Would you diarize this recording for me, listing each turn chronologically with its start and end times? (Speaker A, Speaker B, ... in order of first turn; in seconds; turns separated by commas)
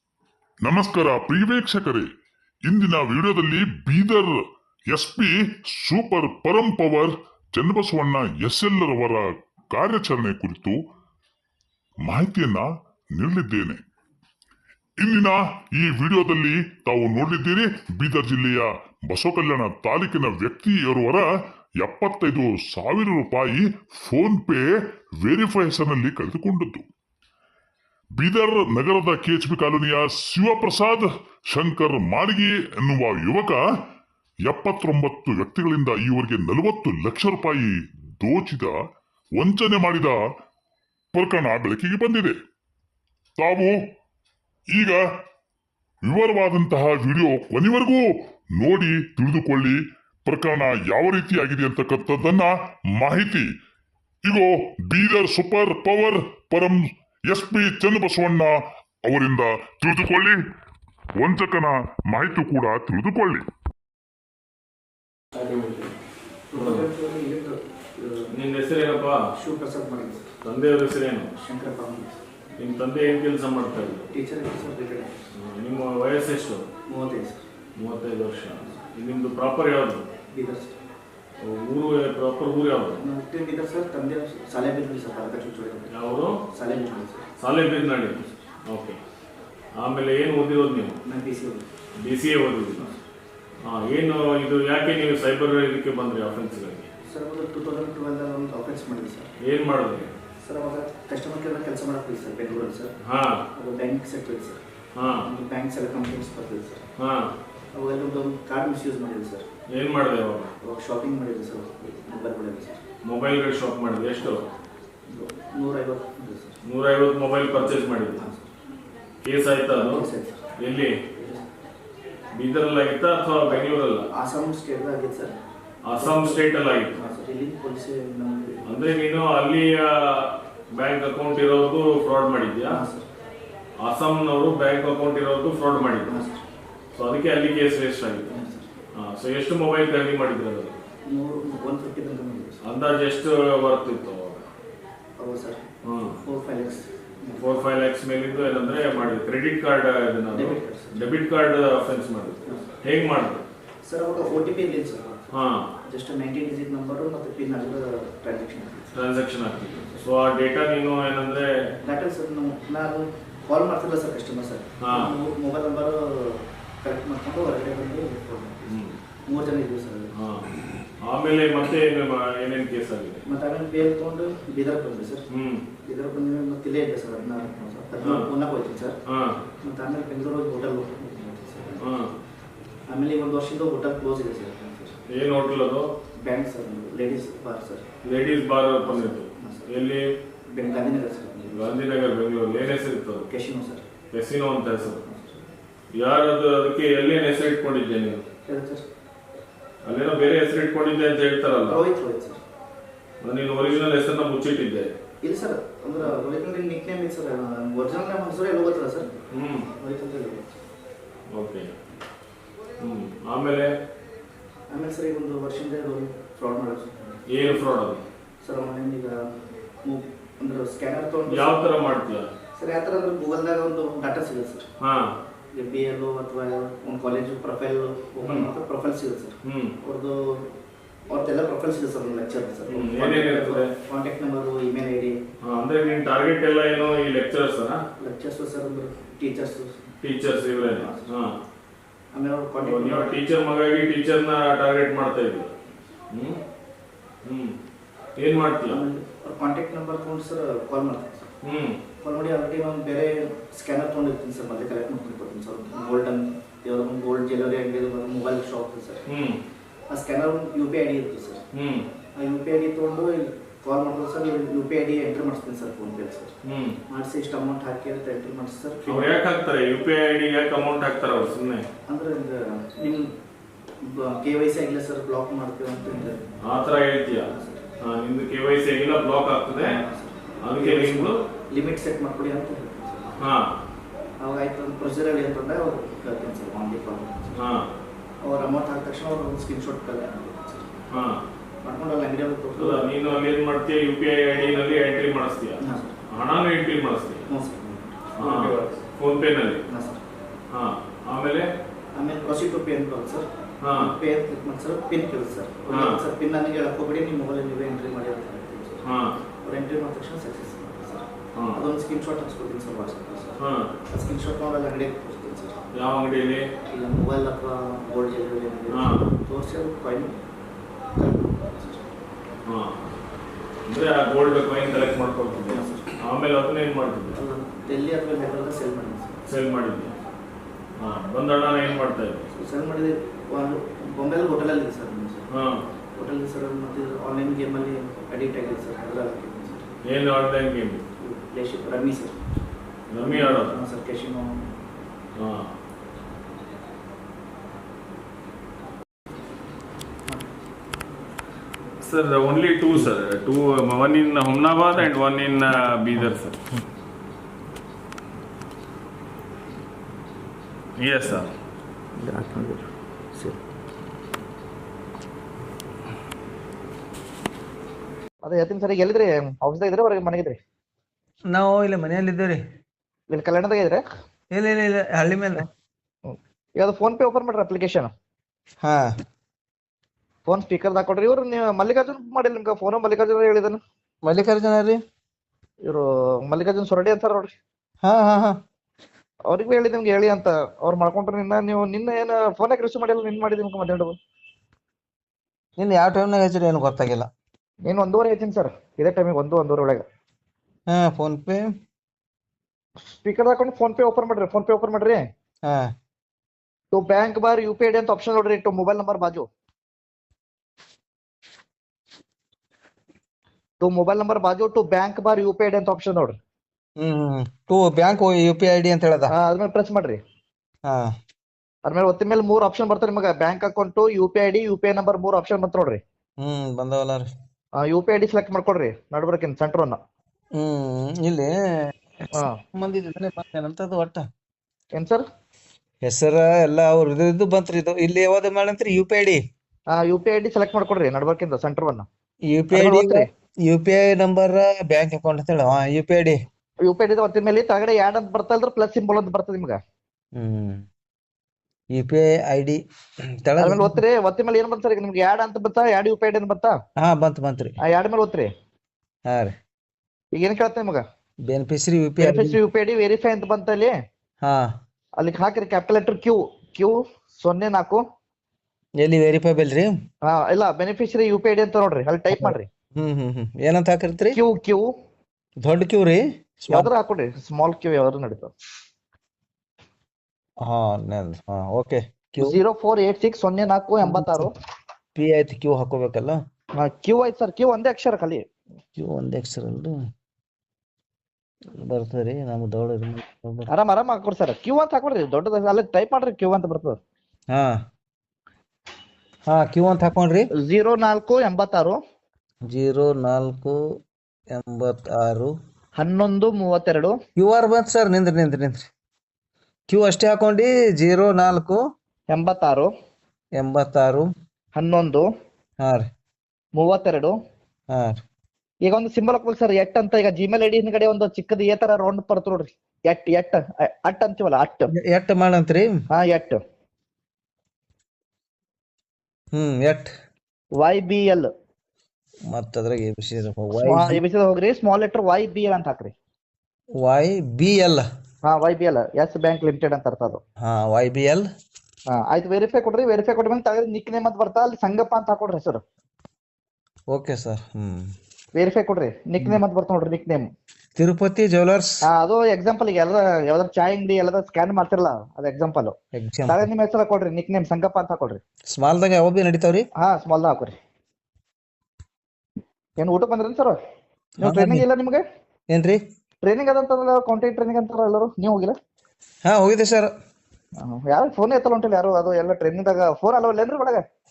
Speaker A: 0.6-2.0, Speaker A: 2.7-4.4, Speaker A: 4.9-10.8, Speaker A: 12.0-13.8, Speaker A: 15.0-21.3, Speaker A: 21.8-24.7, Speaker A: 25.2-26.9, Speaker A: 28.1-33.6, Speaker A: 34.5-38.7, Speaker A: 39.4-40.2, Speaker A: 41.1-42.4, Speaker A: 43.4-43.8, Speaker A: 44.7-45.0, Speaker A: 46.0-53.5, Speaker A: 54.2-60.4, Speaker A: 61.2-63.4, Speaker B: 65.4-65.9, Speaker B: 66.5-68.3, Speaker C: 66.5-66.9, Speaker C: 68.3-69.2, Speaker B: 69.3-70.3, Speaker C: 70.4-71.3, Speaker B: 71.3-72.2, Speaker C: 72.6-74.1, Speaker B: 74.1-75.3, Speaker C: 75.3-76.7, Speaker B: 76.9-77.5, Speaker C: 77.8-80.1, Speaker B: 80.3-80.8, Speaker C: 81.4-83.0, Speaker B: 83.0-87.3, Speaker C: 85.9-86.4, Speaker C: 87.4-89.0, Speaker C: 89.8-91.0, Speaker B: 91.0-91.7, Speaker C: 92.0-92.9, Speaker C: 93.6-96.9, Speaker B: 97.0-99.3, Speaker C: 99.4-100.1, Speaker B: 100.4-102.9, Speaker C: 103.0-103.4, Speaker B: 103.5-106.9, Speaker C: 104.9-105.3, Speaker C: 107.0-107.3, Speaker B: 107.7-109.5, Speaker C: 109.7-110.5, Speaker B: 110.6-112.8, Speaker C: 113.0-114.5, Speaker B: 115.1-116.6, Speaker C: 116.7-118.2, Speaker B: 117.5-118.5, Speaker C: 119.2-120.0, Speaker B: 119.7-120.5, Speaker C: 120.6-120.9, Speaker B: 121.1-121.5, Speaker C: 122.3-124.1, Speaker B: 123.5-125.3, Speaker C: 125.8-127.0, Speaker B: 126.0-128.8, Speaker C: 128.7-132.8, Speaker B: 132.7-133.1, Speaker C: 133.8-136.1, Speaker B: 136.0-136.4, Speaker C: 136.9-138.3, Speaker B: 138.2-138.7, Speaker C: 138.9-140.7, Speaker B: 141.1-142.6, Speaker C: 142.6-144.4, Speaker B: 145.2-145.7, Speaker C: 145.8-146.2, Speaker B: 146.2-147.6, Speaker C: 147.3-153.4, Speaker B: 150.3-151.0, Speaker B: 152.4-152.7, Speaker B: 153.8-155.3, Speaker C: 155.3-155.7, Speaker B: 155.8-159.0, Speaker C: 158.9-161.5, Speaker B: 159.8-160.1, Speaker B: 161.8-170.1, Speaker C: 164.8-165.2, Speaker C: 168.7-168.9, Speaker C: 170.2-170.5, Speaker C: 171.0-173.2, Speaker B: 173.2-175.3, Speaker C: 175.3-175.6, Speaker B: 175.8-179.0, Speaker C: 178.0-178.3, Speaker C: 179.1-179.4, Speaker B: 179.6-182.0, Speaker C: 181.8-182.1, Speaker B: 182.9-185.0, Speaker C: 185.1-185.8, Speaker B: 186.2-187.9, Speaker C: 188.0-190.0, Speaker B: 188.8-189.7, Speaker B: 190.5-191.8, Speaker C: 191.5-193.3, Speaker B: 193.3-193.9, Speaker C: 194.1-195.0, Speaker B: 194.7-195.4, Speaker C: 195.9-198.2, Speaker B: 198.4-198.8, Speaker C: 199.8-201.8, Speaker B: 201.7-202.4, Speaker C: 203.2-204.9, Speaker B: 205.2-209.2, Speaker C: 209.3-209.7, Speaker B: 209.7-210.5, Speaker C: 211.3-211.7, Speaker C: 212.8-213.7, Speaker B: 214.7-217.2, Speaker C: 217.3-218.0, Speaker B: 218.4-219.2, Speaker B: 219.8-222.0, Speaker C: 221.2-222.3, Speaker B: 222.5-224.7, Speaker C: 224.8-225.1, Speaker B: 225.5-230.5, Speaker C: 228.2-228.5, Speaker C: 229.4-229.7, Speaker B: 231.1-235.2, Speaker C: 232.7-233.7, Speaker C: 235.4-237.8, Speaker B: 238.0-239.9, Speaker C: 240.0-241.3, Speaker B: 240.6-241.1, Speaker B: 242.1-243.2, Speaker C: 242.6-245.5, Speaker C: 246.1-246.4, Speaker C: 247.2-247.5, Speaker C: 248.2-248.8, Speaker B: 248.7-251.3, Speaker C: 251.4-251.8, Speaker B: 252.0-259.1, Speaker C: 259.1-259.4, Speaker B: 259.9-261.4, Speaker C: 261.5-261.8, Speaker B: 262.1-266.3, Speaker C: 266.4-266.8, Speaker B: 266.9-269.2, Speaker C: 268.9-271.6, Speaker B: 271.9-273.1, Speaker B: 273.8-276.3, Speaker C: 276.4-279.8, Speaker B: 277.1-277.7, Speaker B: 279.4-283.2, Speaker C: 280.4-281.1, Speaker C: 283.2-283.5, Speaker B: 284.2-287.5, Speaker C: 287.3-287.6, Speaker B: 288.2-290.9, Speaker C: 290.9-291.2, Speaker B: 291.6-293.2, Speaker C: 292.6-297.2, Speaker B: 295.6-296.0, Speaker B: 297.3-298.6, Speaker C: 298.2-299.6, Speaker B: 299.6-300.0, Speaker C: 300.5-301.4, Speaker B: 301.9-308.8, Speaker C: 303.6-304.0, Speaker C: 305.7-306.0, Speaker C: 308.8-309.1, Speaker B: 309.4-315.7, Speaker C: 311.4-311.7, Speaker C: 313.4-313.7, Speaker C: 315.7-316.4, Speaker B: 316.6-320.2, Speaker C: 318.7-319.1, Speaker B: 320.9-321.9, Speaker C: 322.4-322.8, Speaker C: 323.7-327.2, Speaker B: 325.4-326.0, Speaker B: 327.1-329.2, Speaker C: 329.2-329.9, Speaker C: 330.8-332.3, Speaker B: 332.3-335.3, Speaker C: 335.3-335.6, Speaker B: 335.9-339.7, Speaker C: 339.9-340.8, Speaker B: 341.0-342.2, Speaker C: 342.9-343.6, Speaker B: 343.0-344.4, Speaker C: 345.2-345.5, Speaker C: 351.8-356.4, Speaker C: 360.8-361.3, Speaker D: 362.1-362.6, Speaker D: 368.2-370.4, Speaker E: 371.3-372.4, Speaker D: 373.1-373.8, Speaker E: 374.3-375.4, Speaker D: 376.1-377.9, Speaker E: 378.6-378.9, Speaker D: 380.2-383.6, Speaker E: 384.0-384.8, Speaker D: 385.6-387.3, Speaker E: 387.8-388.4, Speaker D: 389.3-393.9, Speaker E: 395.6-397.1, Speaker D: 397.6-399.8, Speaker E: 400.7-401.5, Speaker D: 402.9-405.0, Speaker E: 405.4-405.7, Speaker D: 406.7-409.2, Speaker D: 413.6-416.1, Speaker E: 416.8-419.1, Speaker D: 419.1-420.0, Speaker E: 420.6-420.9, Speaker D: 421.6-425.8, Speaker E: 426.2-427.1, Speaker D: 427.6-429.8, Speaker E: 430.4-434.1, Speaker D: 434.7-435.0, Speaker E: 435.8-439.2, Speaker D: 439.7-441.9, Speaker E: 442.3-446.2, Speaker D: 442.5-443.1, Speaker D: 446.6-449.6, Speaker E: 450.1-450.6, Speaker E: 451.7-452.6, Speaker E: 453.2-453.8, Speaker D: 453.4-456.6, Speaker E: 456.8-457.5, Speaker D: 457.6-458.3, Speaker E: 459.1-459.3, Speaker D: 460.1-460.8, Speaker E: 461.3-462.4, Speaker D: 462.0-463.7, Speaker E: 464.2-464.5, Speaker D: 465.0-467.8, Speaker E: 468.8-469.8, Speaker D: 470.1-472.5, Speaker E: 472.1-474.2, Speaker D: 474.1-474.7, Speaker E: 475.4-476.7, Speaker D: 476.5-478.3, Speaker E: 480.4-482.4, Speaker D: 482.2-484.3, Speaker E: 483.8-484.3, Speaker E: 484.9-486.2, Speaker D: 486.6-488.2, Speaker E: 488.8-489.8, Speaker E: 491.6-493.5, Speaker D: 493.5-496.8, Speaker E: 497.3-497.6, Speaker E: 499.3-500.3, Speaker D: 500.4-501.8, Speaker E: 502.5-503.6, Speaker E: 504.3-505.3, Speaker D: 505.8-506.9, Speaker E: 507.2-508.7, Speaker E: 509.7-511.6, Speaker D: 512.1-512.7, Speaker E: 513.4-514.1, Speaker D: 514.5-515.0, Speaker E: 515.6-515.9, Speaker D: 516.5-517.1, Speaker E: 517.7-518.0, Speaker D: 518.6-524.7, Speaker E: 524.7-525.8, Speaker D: 525.9-526.4, Speaker E: 529.3-529.9, Speaker D: 530.6-531.3, Speaker E: 532.3-534.0, Speaker D: 533.6-535.9, Speaker E: 536.8-537.8, Speaker D: 538.2-540.2, Speaker E: 540.4-541.3, Speaker D: 541.9-545.6, Speaker E: 546.9-547.9, Speaker D: 548.3-550.3, Speaker E: 550.8-551.8, Speaker D: 551.9-555.7, Speaker E: 555.9-556.4, Speaker D: 556.3-558.2, Speaker E: 558.5-559.6, Speaker D: 559.8-560.5, Speaker D: 562.8-563.5, Speaker E: 564.2-564.6, Speaker D: 564.2-565.0, Speaker E: 565.5-565.8, Speaker D: 566.2-568.5, Speaker E: 569.2-569.9, Speaker D: 570.6-573.8